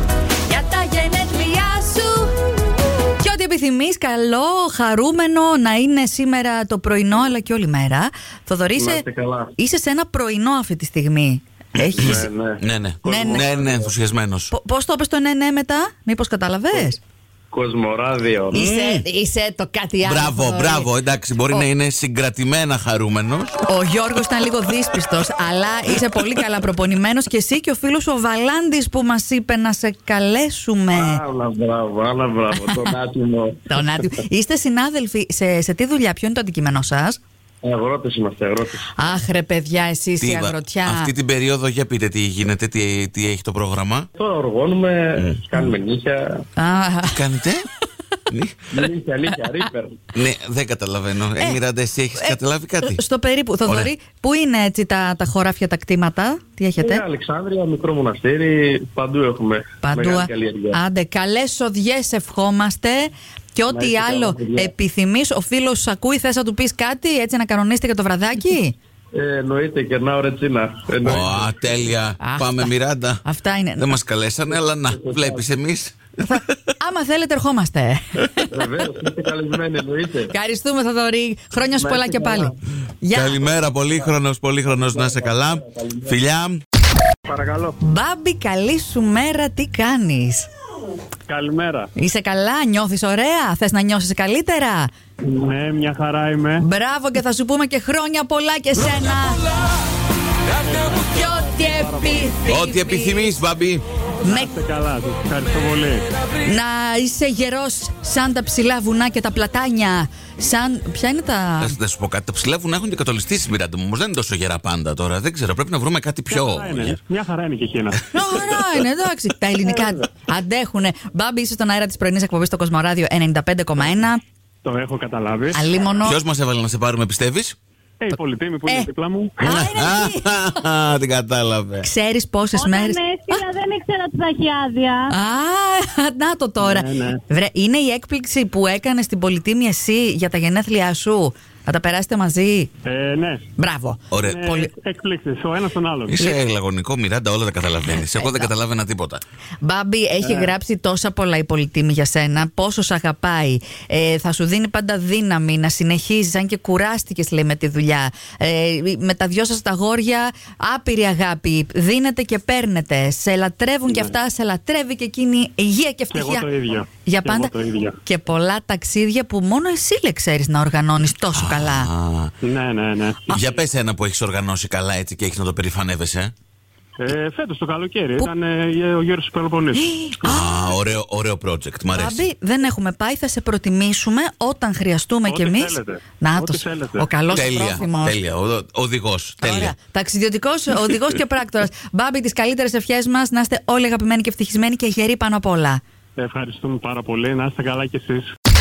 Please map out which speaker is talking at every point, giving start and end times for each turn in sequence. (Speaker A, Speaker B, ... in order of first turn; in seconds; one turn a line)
Speaker A: 0.5-2.3
Speaker A: 3.2-9.0
Speaker B: 8.8-9.5
Speaker A: 9.6-12.2
Speaker B: 11.9-13.8
Speaker C: 11.9-14.5
Speaker A: 13.1-13.5
Speaker A: 14.5-17.0
Speaker B: 17.5-18.6
Speaker A: 18.5-20.9
Speaker C: 18.5-19.0
Speaker C: 20.0-23.6
Speaker A: 23.7-31.2
Speaker B: 30.9-33.6
Speaker A: 32.5-32.9
Speaker A: 33.7-37.2
Speaker B: 37.6-38.9
Speaker A: 39.0-41.1
Speaker C: 40.2-44.1
Speaker B: 44.1-46.4
Speaker C: 45.2-45.4
Speaker A: 46.6-47.2
Speaker C: 47.1-47.6
Speaker C: 48.3-48.7
Speaker B: 48.7-50.0
Speaker C: 50.1-53.0
Speaker A: 52.1-57.0
Speaker C: 53.6-53.9
Speaker B: 56.8-60.8
Speaker A: 59.8-68.8
Speaker B: 63.7-64.7
Speaker B: 69.1-71.5
Speaker C: 71.0-73.2
Speaker A: 72.2-72.7
Speaker A: 73.2-74.0
Speaker C: 73.8-76.5
Speaker B: 74.9-75.4
Speaker A: 76.2-78.5
Speaker B: 78.5-80.3
Speaker A: 80.3-83.4
Speaker B: 81.7-82.5
Speaker C: 83.1-86.6
Speaker B: 84.9-86.1
Speaker B: 87.3-87.8
Speaker A: 87.8-90.5
Speaker D: 91.3-91.9
Speaker A: 92.0-94.9
Speaker D: 95.2-96.7
Speaker A: 96.6-99.4
Speaker D: 100.6-102.4
Speaker A: 100.7-103.3
Speaker C: 102.5-103.8
Speaker A: 104.2-104.5
Speaker D: 104.2-106.1
Speaker A: 106.4-111.8
Speaker C: 111.6-117.0
Speaker D: 116.3-118.0
Speaker A: 118.1-124.2
Speaker D: 124.6-125.6
Speaker A: 125.5-126.2
Speaker C: 126.0-127.5
Speaker D: 128.0-129.4
Speaker A: 129.4-130.3
Speaker C: 129.4-131.9
Speaker A: 131.8-133.4
Speaker E: 132.5-135.1
Speaker A: 135.1-142.7
Speaker D: 136.6-137.2
Speaker D: 142.8-143.5
Speaker A: 143.6-144.7
Speaker C: 144.1-144.4
Speaker D: 144.2-146.2
Speaker C: 146.1-149.2
Speaker A: 147.9-148.5
Speaker A: 149.6-166.5
Speaker D: 150.2-150.5
Speaker D: 163.9-164.1
Speaker D: 166.1-168.0
Speaker A: 167.0-167.5
Speaker A: 168.0-171.9
Speaker C: 171.3-172.3
Speaker D: 172.4-173.6
Speaker C: 173.3-176.3
Speaker D: 177.0-180.4
Speaker A: 179.7-180.7
Speaker C: 180.2-182.2
Speaker A: 181.9-188.2
Speaker D: 185.3-187.1
Speaker C: 187.3-189.7
Speaker A: 189.4-195.8
Speaker D: 196.2-198.3